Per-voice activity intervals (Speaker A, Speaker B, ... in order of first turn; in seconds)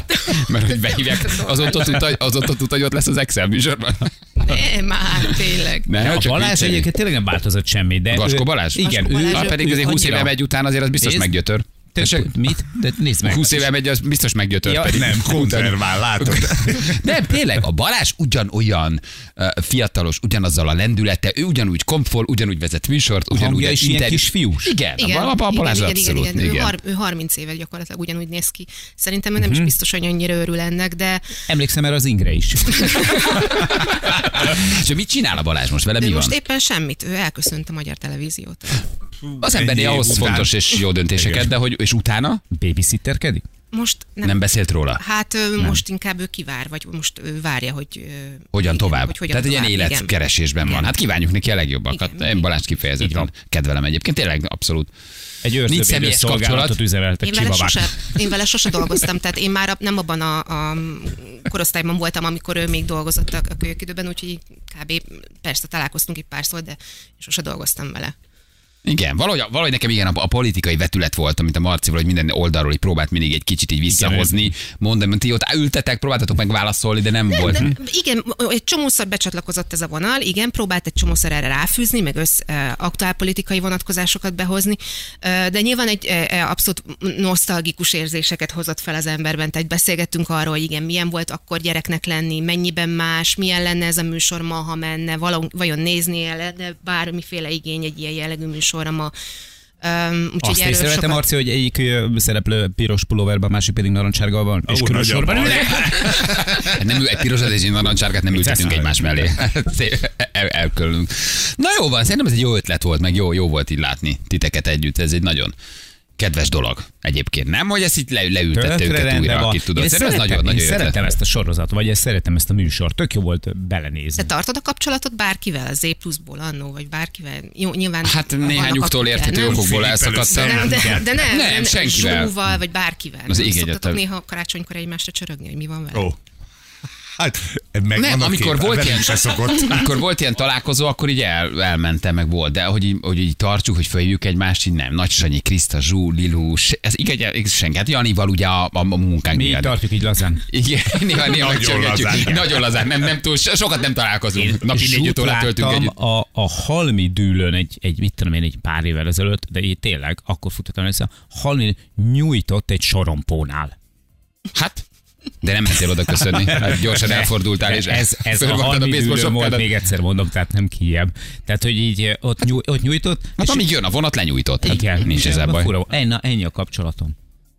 Speaker A: 0.2-4.1, 5.9-6.9, 8.1-12.3, 13.2-26.7, 33.5-36.4, 39.4-42.4, 44.2-45.0, 48.5-54.9, 55.6-56.8, 68.8-77.7, 105.7-115.5, 116.2-121.0, 128.0-132.4, 133.2-134.0, 137.9-149.7, 150.5-155.9, 164.5-164.8, 165.4-169.7, 173.4-175.7
Speaker B: 1.2-1.9, 4.4-5.9, 8.8-9.5, 24.9-31.2, 32.9-33.5, 36.0-38.9, 43.7-50.1, 51.9-52.5, 57.2-68.1, 77.3-99.1, 99.8-101.2, 124.2-129.6, 130.3-136.1
Speaker C: 6.0-10.3, 11.0-11.3, 11.9-13.7, 14.6-15.1, 23.3-24.7, 29.4-29.7, 31.5-33.1, 42.5-43.4, 53.0-53.3, 55.4-57.9, 73.9-74.5, 77.4-77.7, 100.4-106.3, 108.3-109.3, 118.5-124.3, 149.3-150.4, 154.3-163.7, 166.5-173.6, 174.6-177.1
Speaker D: 14.9-17.0, 39.4-41.5, 104.7-106.7, 129.4-131.1, 137.2-139.9, 151.2-152.6